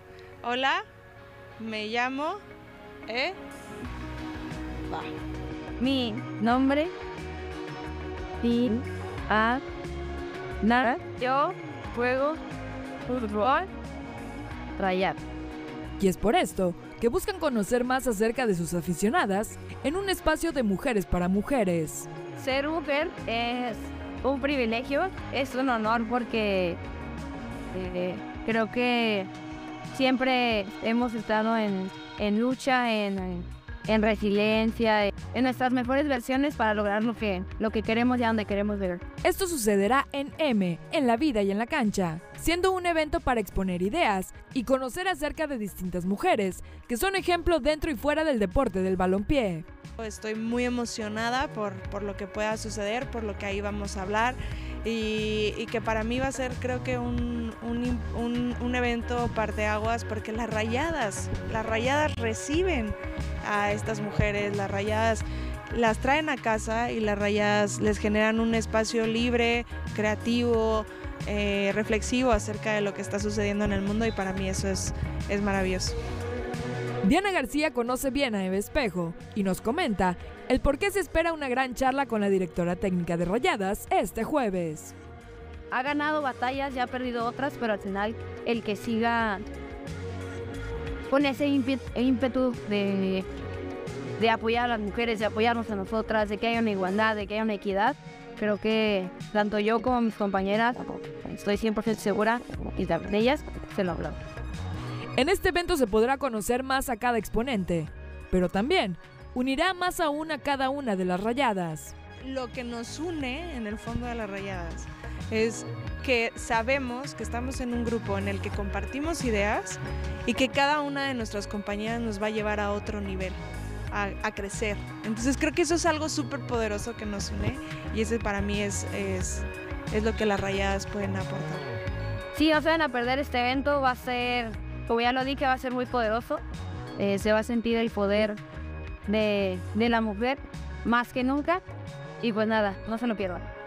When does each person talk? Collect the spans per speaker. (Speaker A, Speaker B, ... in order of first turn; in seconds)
Speaker A: 0.4-0.8, 1.6-2.4, 3.1-3.4, 50.0-76.0, 112.2-131.7
Speaker B: 5.8-6.9, 8.4-9.6, 10.6-12.4, 13.1-13.7, 14.8-15.2, 22.4-26.8, 27.7-29.3, 29.9-39.0, 85.7-89.5, 91.1-93.3, 94.2-104.2, 132.3-136.4, 137.0-138.4, 139.1-141.6, 142.2-143.5
Speaker C: 16.0-22.1, 39.2-49.6, 77.0-84.9, 105.2-112.0